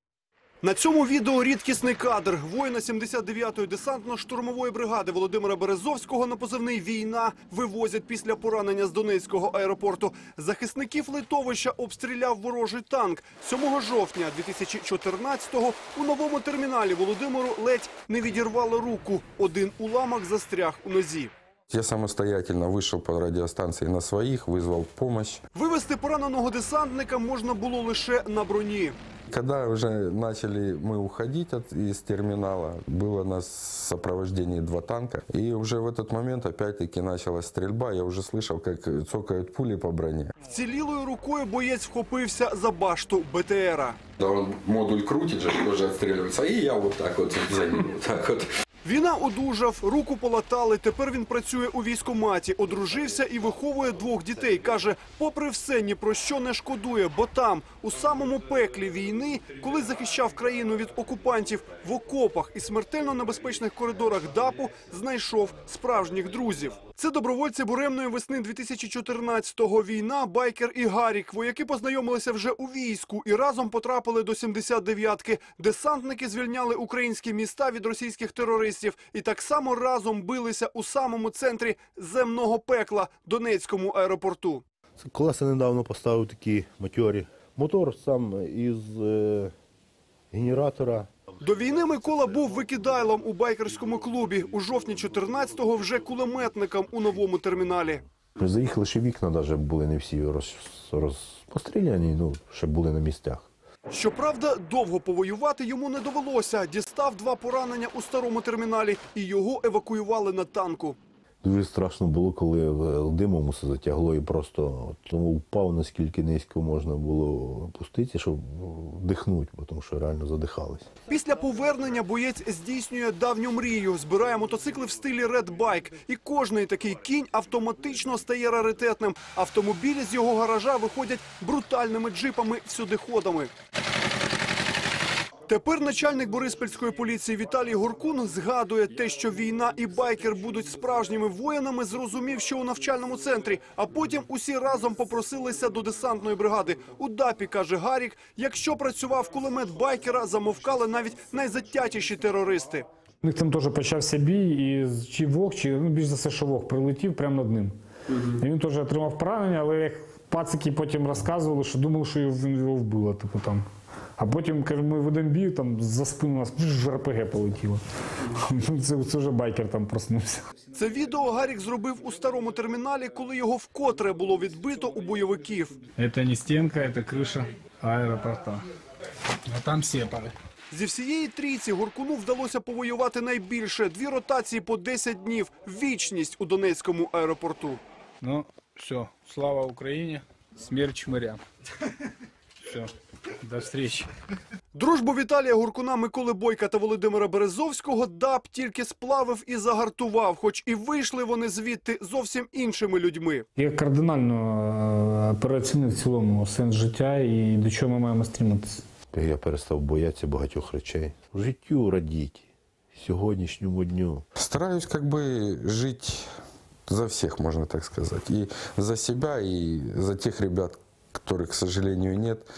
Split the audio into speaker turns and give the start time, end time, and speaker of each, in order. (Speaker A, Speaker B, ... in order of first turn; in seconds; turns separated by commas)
Speaker A: 0.6-21.3, Speaker B: 21.7-25.4, Speaker A: 25.6-28.9, Speaker B: 29.3-40.3, Speaker A: 40.4-44.0, Speaker B: 44.2-48.5, Speaker A: 48.8-84.6, Speaker C: 85.0-89.5, Speaker C: 90.3-91.1, Speaker A: 91.4-98.0, Speaker C: 98.4-103.5, Speaker A: 103.9-111.0, Speaker C: 111.4-120.9, Speaker A: 121.1-133.5, Speaker A: 135.5-152.9, Speaker D: 153.2-163.6, Speaker D: 164.2-170.4, Speaker A: 170.8-175.7, Speaker D: 176.0-177.2, Speaker E: 176.0-178.5, Speaker D: 177.9-178.6, Speaker E: 179.5-180.0, Speaker A: 180.7-187.8, Speaker E: 188.2-189.9, Speaker D: 189.9-190.9, Speaker E: 190.6-191.4, Speaker E: 193.4-194.1, Speaker D: 193.5-193.9, Speaker A: 194.7-203.4, Speaker D: 203.6-208.8, Speaker C: 209.1-214.2, Speaker B: 214.4-216.3, Speaker B: 216.9-222.5